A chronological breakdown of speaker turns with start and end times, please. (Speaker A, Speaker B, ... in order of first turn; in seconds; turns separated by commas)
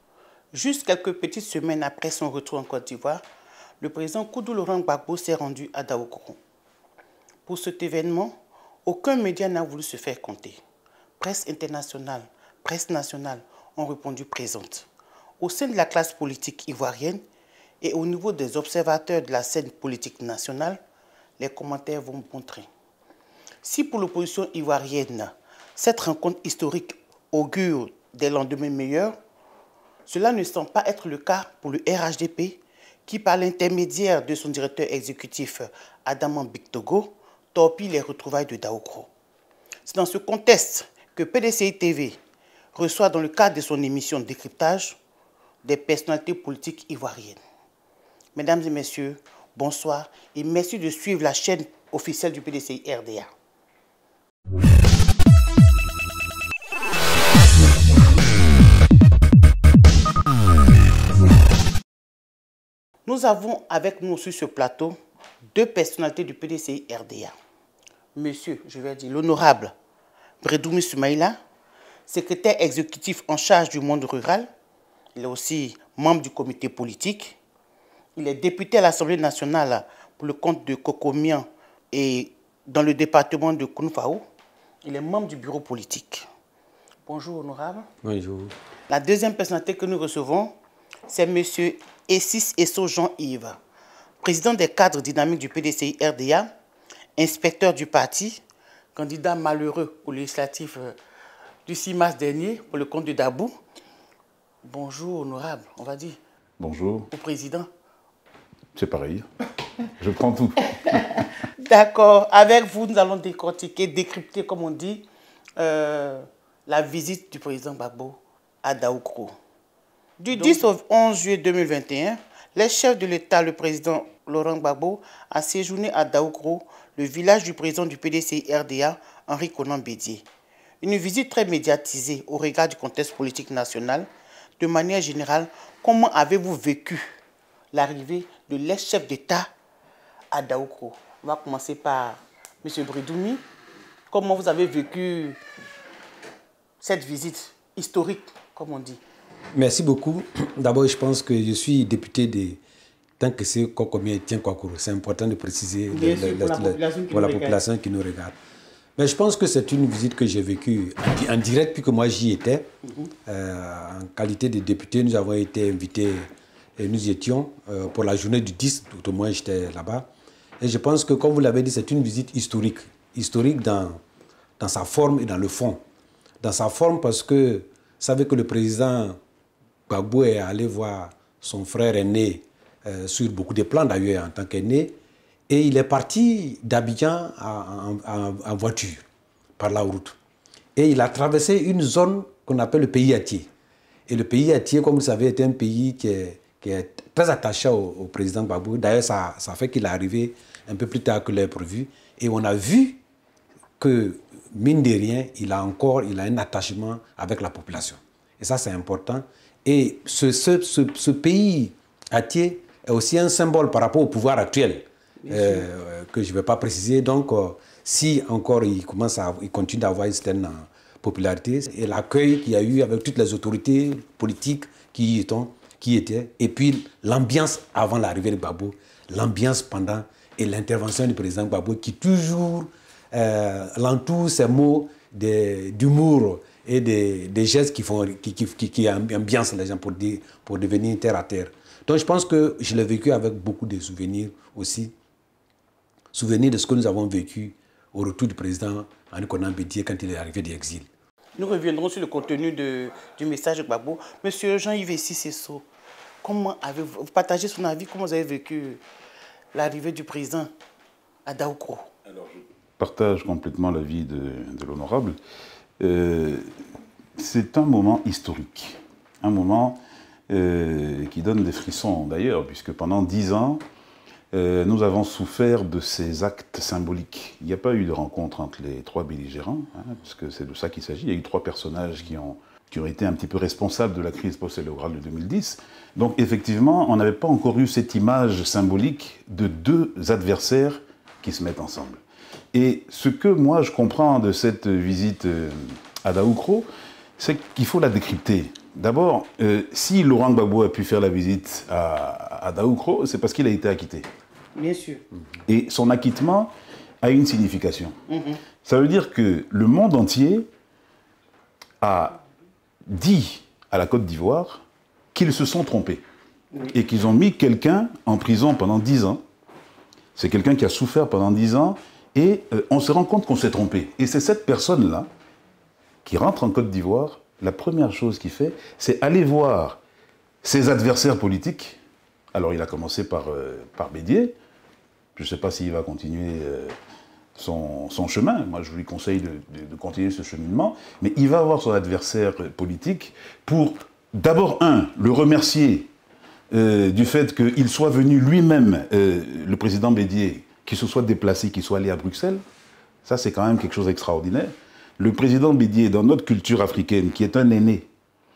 Speaker A: 0.5-3.2, Speaker A: 3.8-6.4, Speaker A: 7.5-10.6, Speaker A: 11.2-14.9, Speaker A: 15.4-17.2, Speaker A: 17.8-20.8, Speaker A: 21.4-22.7, Speaker A: 23.6-29.1, Speaker A: 30.1-39.1, Speaker A: 39.9-42.2, Speaker A: 42.8-45.0, Speaker A: 45.6-47.4, Speaker A: 48.4-53.3, Speaker A: 63.1-65.0, Speaker A: 65.5-67.3, Speaker A: 68.1-69.7, Speaker A: 70.4-71.4, Speaker A: 72.1-74.5, Speaker A: 75.1-77.4, Speaker A: 78.2-84.2, Speaker A: 84.8-86.3, Speaker A: 87.1-87.9, Speaker B: 88.0-88.5, Speaker A: 88.9-90.5, Speaker A: 91.1-93.6, Speaker A: 94.2-96.5, Speaker A: 97.2-98.4, Speaker A: 99.0-101.0, Speaker A: 101.7-103.5, Speaker A: 104.6-106.2, Speaker C: 106.6-107.1, Speaker A: 107.1-107.7, Speaker C: 108.8-109.3, Speaker C: 110.0-110.7, Speaker A: 111.6-115.1, Speaker A: 115.6-119.3, Speaker A: 120.2-130.2, Speaker A: 130.8-134.1, Speaker A: 134.6-137.0, Speaker A: 137.7-139.5, Speaker A: 140.3-143.4, Speaker A: 144.1-145.4, Speaker A: 146.8-149.0, Speaker B: 149.5-152.6, Speaker B: 153.2-158.3, Speaker A: 155.9-157.6, Speaker B: 159.0-162.7, Speaker B: 163.2-170.1, Speaker B: 170.6-174.0, Speaker B: 174.6-175.8, Speaker B: 176.4-179.2, Speaker B: 179.9-184.9, Speaker B: 185.5-189.0, Speaker B: 189.6-190.2, Speaker B: 190.8-193.5, Speaker B: 194.1-203.0, Speaker B: 203.8-244.9, Speaker A: 215.2-215.6, Speaker B: 246.1-250.9, Speaker A: 251.4-255.7, Speaker A: 256.2-258.8, Speaker A: 259.5-260.5, Speaker A: 261.2-261.9, Speaker C: 262.8-265.2, Speaker C: 265.8-266.5, Speaker C: 267.1-273.6, Speaker C: 274.3-292.0, Speaker C: 292.5-296.6, Speaker C: 297.2-304.1, Speaker A: 304.6-305.0, Speaker C: 305.5-307.9, Speaker A: 308.1-308.4, Speaker C: 308.6-310.5, Speaker C: 311.8-312.2, Speaker C: 312.9-316.0, Speaker C: 316.7-319.2, Speaker C: 320.1-325.1, Speaker C: 326.1-329.8, Speaker C: 330.4-331.8, Speaker C: 332.3-334.3, Speaker C: 335.1-336.8, Speaker C: 337.3-345.9, Speaker C: 346.5-352.4, Speaker C: 353.0-357.9